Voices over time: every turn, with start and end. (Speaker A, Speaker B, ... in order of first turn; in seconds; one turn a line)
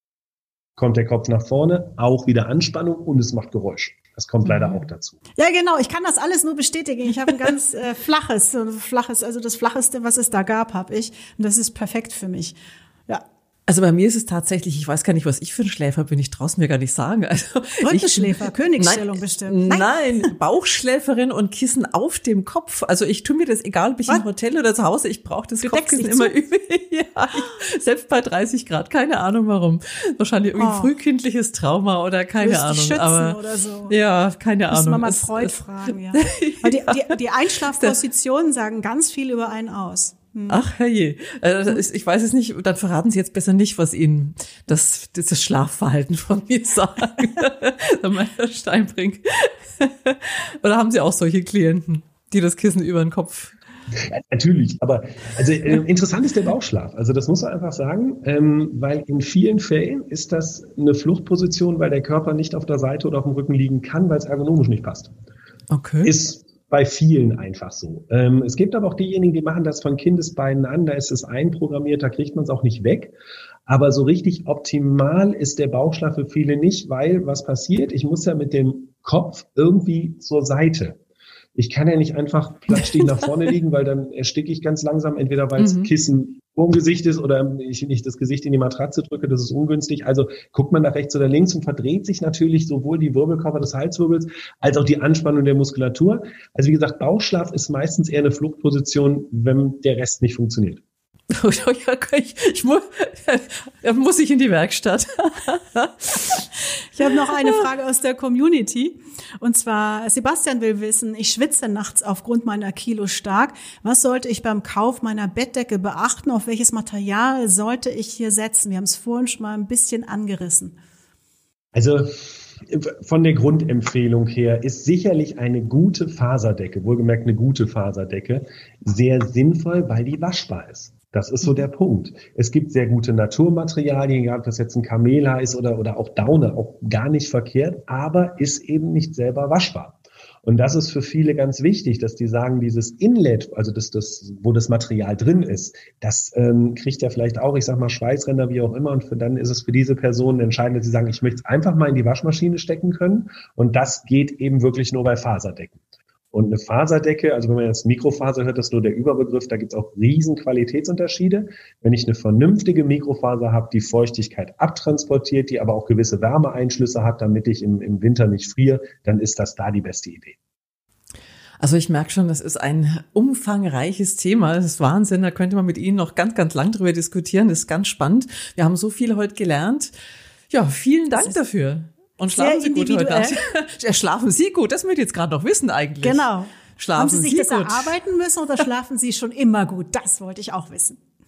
Speaker A: 0.8-5.2
Speaker B: 4.5-4.8
Speaker C: 5.4-13.2
Speaker B: 13.7-33.4
Speaker C: 17.8-20.2
Speaker C: 25.6-26.4
Speaker C: 30.6-30.9
Speaker C: 32.4-33.9
Speaker B: 33.9-35.5
Speaker C: 34.7-40.6
Speaker B: 36.1-38.0
Speaker B: 40.5-53.5
Speaker A: 54.1-65.1
Speaker B: 65.7-66.1
Speaker A: 66.0-73.1
Speaker A: 73.7-81.0
Speaker A: 81.5-100.8
Speaker B: 85.6-85.9
Speaker B: 101.3-106.4
Speaker C: 107.0-120.8
Speaker B: 107.0-107.6
Speaker A: 121.7-155.8
Speaker A: 156.3-170.4
Speaker B: 171.6-179.9
Speaker B: 180.5-186.2
Speaker C: 182.3-183.4
Speaker C: 186.0-191.0
Speaker B: 186.8-187.9